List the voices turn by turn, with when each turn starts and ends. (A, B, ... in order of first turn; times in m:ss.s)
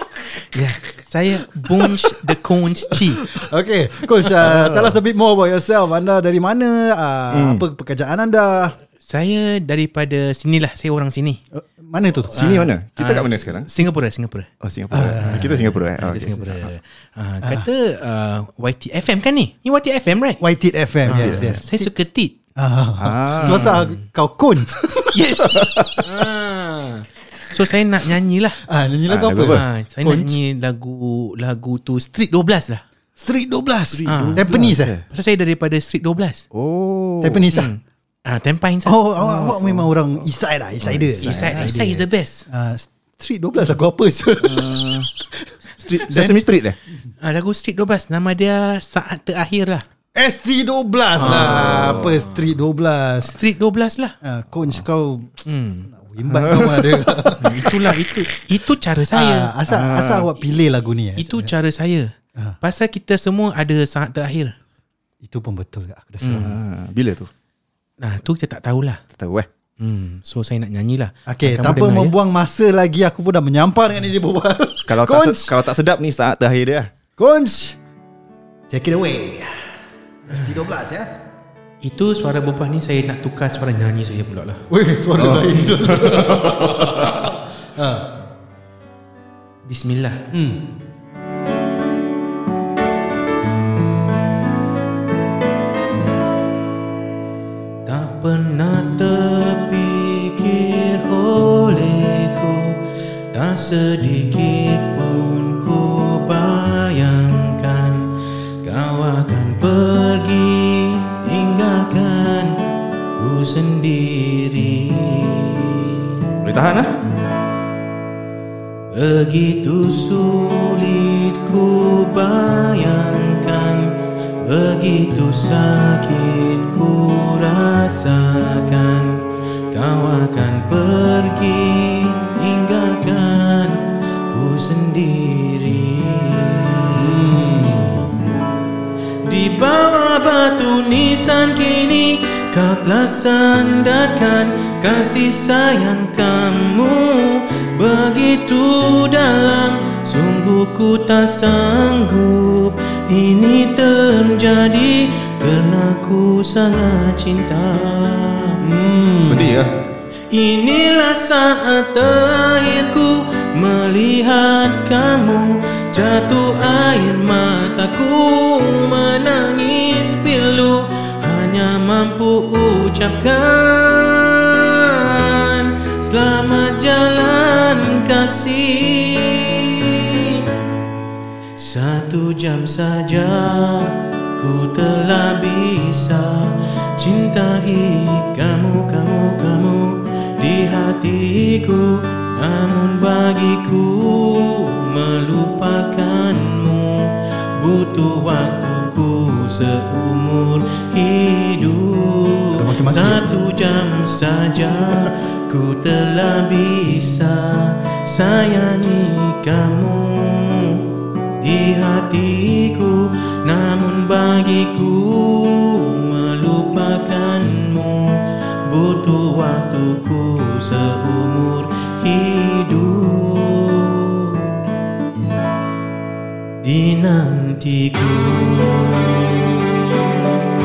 0:00.5-0:03.3 A
0:01.6-0:02.0 B
0:02.9-0:08.8 B
0:04.4-0:05.0 C
0:07.3-0:07.6 C
0:09.0-0:11.4 A
0:11.5-0:12.6 B
0:12.3-0:13.7 C
0:12.4-0:14.5 A
0:14.6-0:16.6 C
0:14.9-0:15.7 B
0:15.2-0:20.4 A
0:20.4-0:21.9 B
0:21.0-0:22.4 A
0:21.1-0:21.6 C
0:22.6-0:25.0 B
0:23.0-0:23.8 C
0:23.4-0:23.9 A
0:25.1-0:28.6 A
0:25.6-0:26.0 C
0:28.7-0:30.3 B
0:29.1-0:29.6 C
0:29.4-0:32.8 A
0:33.2-0:34.9 B
0:33.9-0:35.0 C
0:34.1-0:34.5 A
0:35.1-0:36.4 A
0:36.5-0:37.5 C
0:37.2-0:37.7 B
0:37.5-0:39.0 A
0:38.8-0:46.4 B
0:39.2-0:39.9 C
0:40.8-0:41.7 C
0:41.2-0:42.4 A
0:44.4-0:45.1 C
0:45.8-0:46.8 C
0:47.2-0:49.8 A
0:50.1-0:53.3 B
0:51.2-0:52.1 A
0:51.2-0:52.2 C
0:53.2-0:54.1 A
0:54.2-0:55.3 B
0:55.4-0:55.9 A
0:55.9-0:57.9 B
0:56.3-0:57.1 C
0:57.4-0:59.5 A
0:59.1-1:01.5 B
0:59.7-1:00.3 C
1:01.2-1:04.5 A
1:05.2-1:06.6 B
1:06.2-1:06.5 A
1:06.3-1:07.3 C
1:08.0-1:09.0 A
1:09.1-1:09.5 C
1:09.8-1:12.1 A
1:11.2-1:15.6 B
1:14.9-1:16.9 C
1:17.2-1:17.8 B
1:18.7-1:19.6 B
1:20.2-1:21.1 B
1:21.8-1:24.6 A
1:24.7-1:28.1 B
1:25.2-1:27.1 C
1:25.9-1:26.4 A
1:29.6-1:30.2 A
1:30.3-1:30.6 B
1:37.8-1:52.6 A
1:53.2-1:56.2 A
1:56.4-1:56.9 C
1:58.9-2:17.2 A
2:16.9-2:18.1 B
2:19.2-2:38.6 A
2:38.6-2:39.5 B
2:39.2-2:39.7 C
2:40.3-3:00.4 A
3:01.6-3:30.8 A
3:22.5-3:23.2 B
3:31.4-3:44.4 A
3:46.6-3:50.0 A